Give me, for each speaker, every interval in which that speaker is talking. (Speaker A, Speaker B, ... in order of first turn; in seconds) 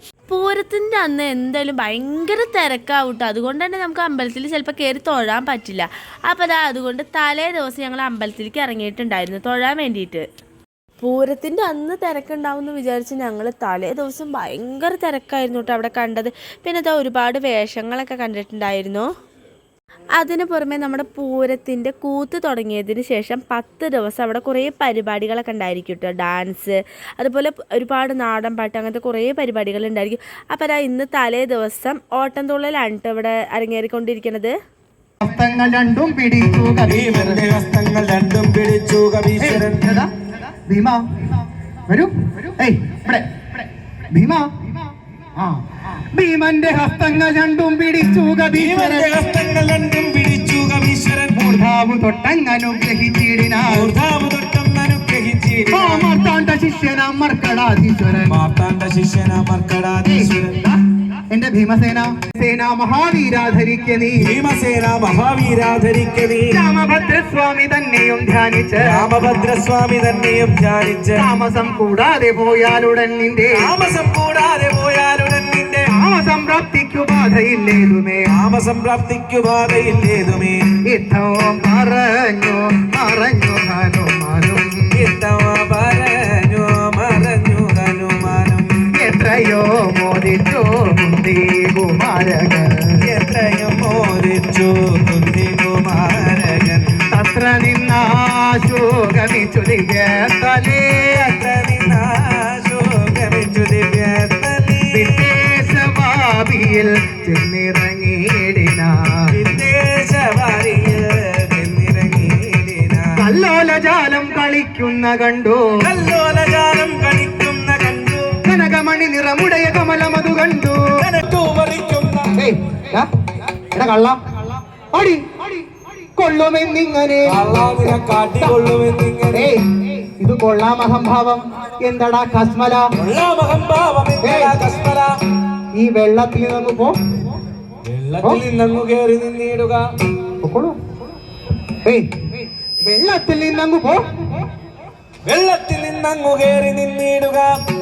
Speaker A: 0.3-10.2, 11.0-19.1, 20.2-34.5
Speaker B: 35.2-37.4, 39.4-41.0, 41.9-44.8, 45.4-49.2, 51.3-54.0, 55.7-58.4, 60.0-60.8, 61.3-64.3, 66.5-69.3, 71.2-73.7, 75.9-78.3, 80.9-85.0, 88.9-92.9, 97.1-101.3, 104.9-109.3, 113.2-115.9, 118.5-121.0, 122.4-124.2, 124.9-125.6, 126.2-128.6, 129.3-132.8, 134.2-134.6, 135.8-136.9, 138.2-138.4, 140.4-140.8, 141.7-144.5
Speaker C: 36.9-39.7, 48.5-51.3, 53.6-56.0, 58.3-60.6, 64.2-66.6, 68.8-71.2, 73.6-75.9, 78.3-80.6, 84.9-88.8, 93.0-97.0, 101.1-105.2, 109.3-113.1, 115.8-118.2, 121.0-122.3, 127.2-129.5, 133.0-135.1, 137.9-139.8, 145.2-147.5